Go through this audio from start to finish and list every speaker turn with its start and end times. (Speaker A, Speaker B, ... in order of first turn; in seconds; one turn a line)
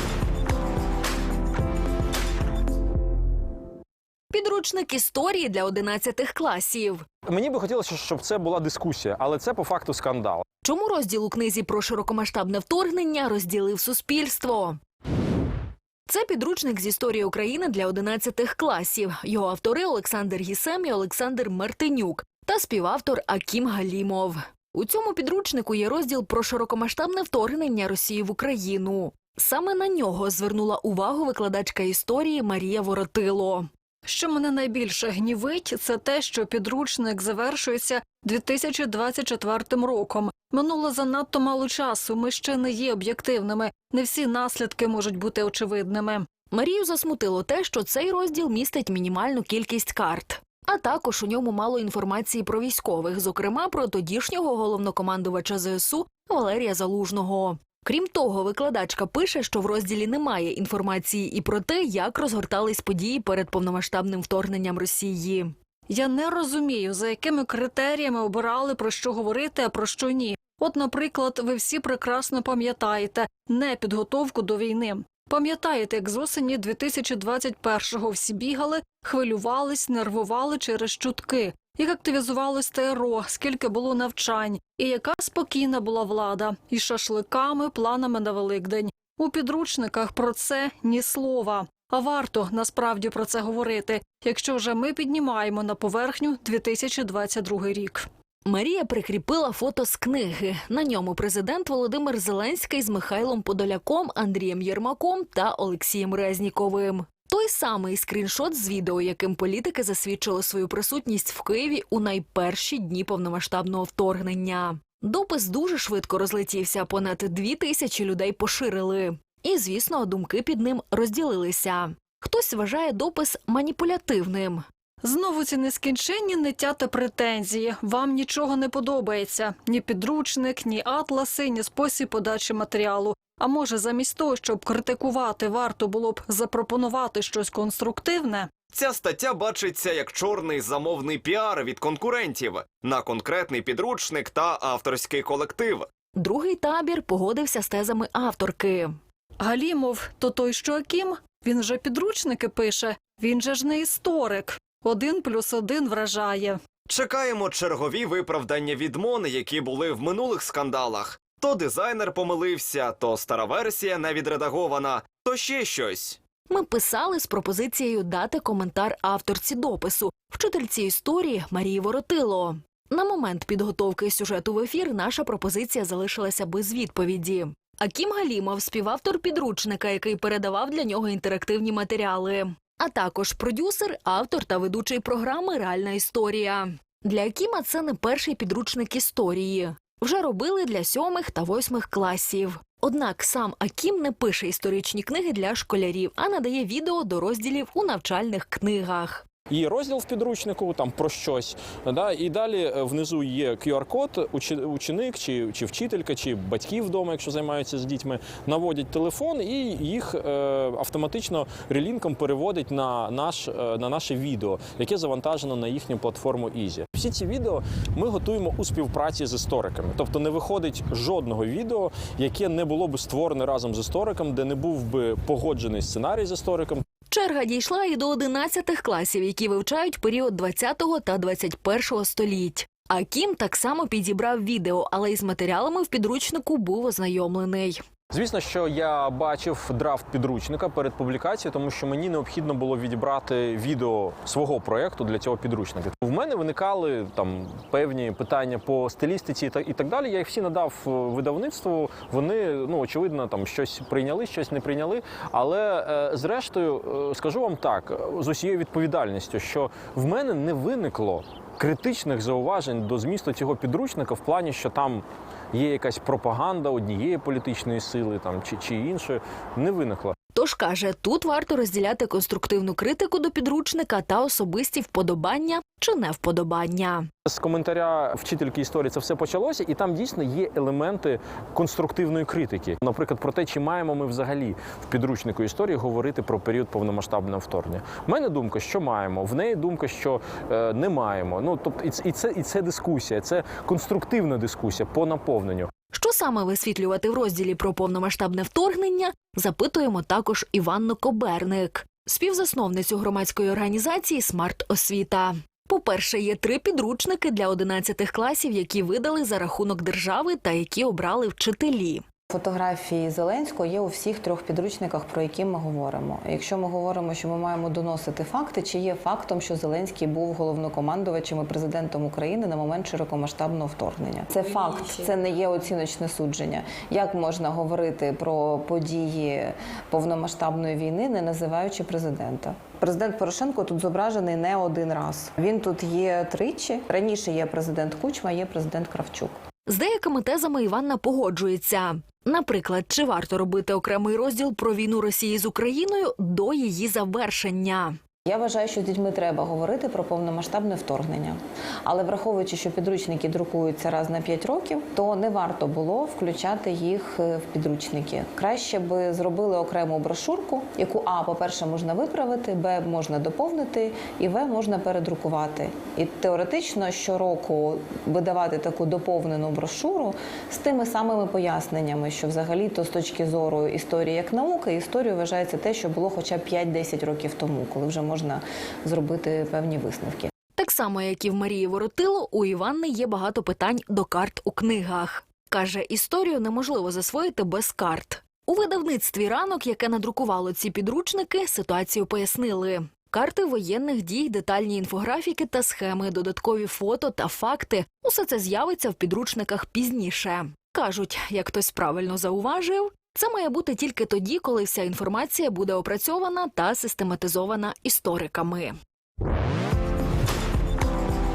Speaker A: 4.3-7.0
Speaker B: 7.3-10.5
Speaker A: 10.6-14.8
Speaker A: 16.1-33.7
Speaker C: 34.1-46.3
Speaker A: 46.5-65.5
Speaker C: 65.9-98.1
Speaker A: 98.5-124.7
Speaker C: 125.0-138.5
Speaker D: 138.7-145.9
Speaker A: 146.2-149.0
Speaker C: 149.4-156.6
Speaker D: 156.9-166.2
Speaker A: 166.5-199.3
Speaker B: 199.5-226.8
Speaker A: 227.1-237.8
Speaker B: 238.1-270.1
Speaker A: 270.4-277.1
Speaker B: 277.3-295.7
Speaker A: 295.9-312.0
Speaker E: 312.3-339.4
Speaker A: 339.7-348.0
Speaker E: 348.3-380.3
Speaker A: 380.6-408.8